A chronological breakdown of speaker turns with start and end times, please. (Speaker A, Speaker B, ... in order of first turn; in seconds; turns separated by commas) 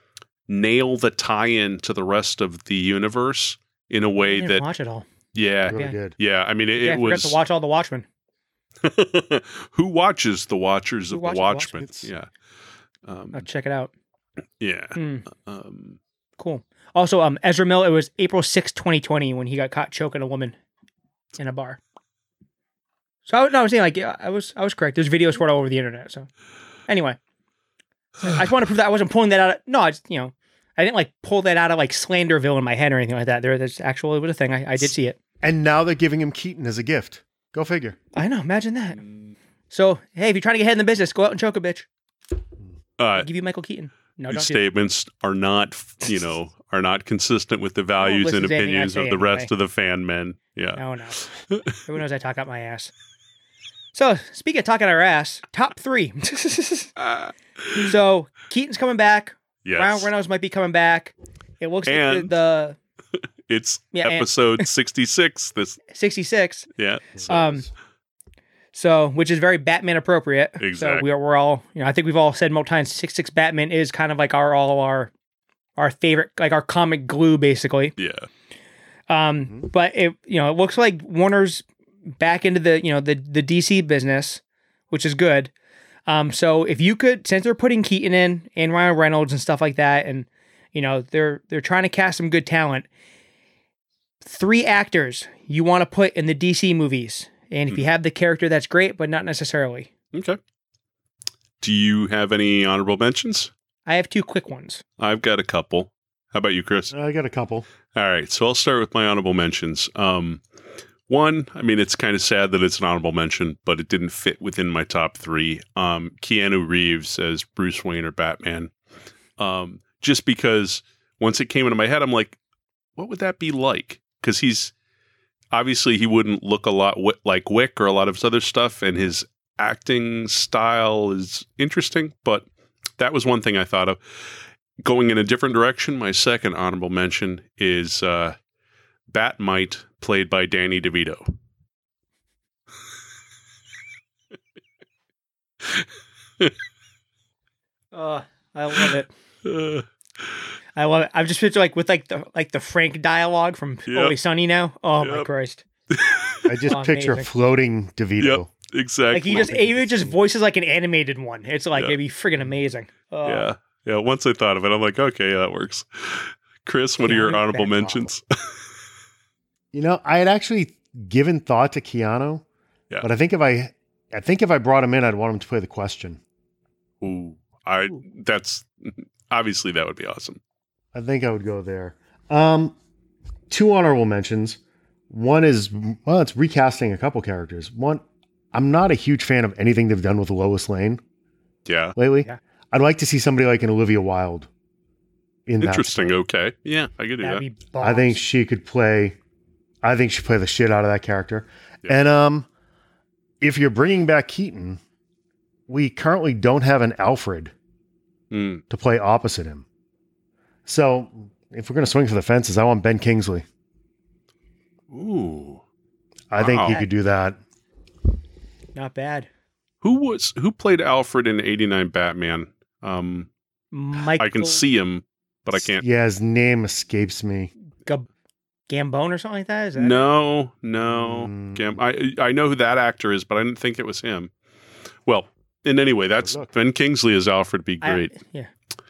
Speaker A: 0.5-4.6, Speaker B: 4.2-5.1, Speaker A: 5.3-7.4, Speaker C: 5.7-6.2, Speaker B: 6.8-8.1, Speaker A: 8.8-12.3, Speaker B: 11.1-11.8, Speaker A: 13.1-13.4, Speaker B: 13.3-13.9, Speaker A: 14.6-16.0, Speaker B: 14.9-15.2, Speaker B: 16.4-20.6, Speaker B: 21.4-21.8, Speaker B: 23.3-26.3, Speaker B: 26.9-27.2, Speaker B: 28.2-35.2, Speaker C: 35.4-38.0, Speaker B: 38.1-39.0, Speaker B: 39.7-41.9, Speaker A: 43.0-43.3, Speaker B: 43.1-44.6, Speaker A: 44.3-50.8, Speaker B: 48.0-49.5, Speaker B: 50.8-51.3, Speaker B: 51.8-52.9, Speaker B: 53.9-56.9, Speaker A: 57.0-57.9, Speaker B: 57.8-62.8, Speaker A: 59.6-60.1, Speaker A: 61.9-62.3, Speaker A: 63.5-65.8, Speaker B: 63.9-64.7, Speaker B: 65.9-66.7, Speaker A: 66.8-67.4, Speaker C: 67.2-67.5, Speaker B: 67.2-67.7, Speaker B: 68.7-75.1, Speaker A: 70.6-71.0, Speaker B: 75.8-77.9, Speaker A: 78.0-78.3, Speaker B: 79.1-81.6, Speaker B: 82.2-85.5, Speaker B: 86.1-92.9, Speaker B: 94.2-99.9, Speaker A: 100.1-100.4, Speaker A: 101.6-103.5, Speaker B: 103.8-104.8, Speaker A: 105.0-106.9, Speaker C: 106.9-107.7, Speaker A: 107.9-110.4, Speaker A: 111.1-118.7, Speaker A: 119.4-122.4, Speaker A: 123.0-124.7, Speaker A: 125.5-132.4, Speaker A: 133.0-134.0, Speaker A: 134.8-138.3, Speaker A: 139.1-141.2, Speaker B: 147.9-149.1, Speaker A: 149.4-149.8, Speaker B: 150.8-155.6, Speaker A: 153.9-154.1, Speaker A: 155.0-155.3, Speaker A: 155.9-156.5, Speaker C: 156.4-158.5, Speaker B: 156.7-157.3, Speaker A: 158.2-159.6, Speaker B: 159.1-163.5, Speaker C: 159.3-160.1, Speaker A: 163.2-168.2, Speaker B: 167.0-168.0, Speaker C: 169.7-172.4, Speaker C: 173.0-176.2, Speaker A: 177.0-180.4, Speaker C: 180.9-182.8, Speaker C: 183.5-184.6, Speaker C: 185.1-191.0, Speaker A: 191.7-191.9, Speaker C: 191.9-194.5, Speaker C: 195.5-196.1, Speaker A: 195.6-197.4, Speaker B: 197.2-198.2, Speaker C: 197.8-199.2, Speaker C: 199.8-202.5, Speaker C: 203.4-204.8, Speaker C: 205.7-207.5, Speaker A: 208.3-208.6, Speaker C: 208.7-209.6, Speaker C: 210.7-213.4, Speaker A: 214.9-215.6, Speaker C: 216.3-217.4, Speaker A: 216.4-216.8, Speaker B: 218.7-219.3, Speaker A: 219.8-223.3, Speaker B: 223.7-224.6, Speaker A: 224.1-225.8, Speaker C: 225.6-227.5, Speaker B: 228.7-230.0, Speaker A: 229.8-234.3, Speaker C: 230.8-231.8, Speaker A: 235.1-238.1, Speaker C: 236.2-236.5, Speaker B: 237.8-238.5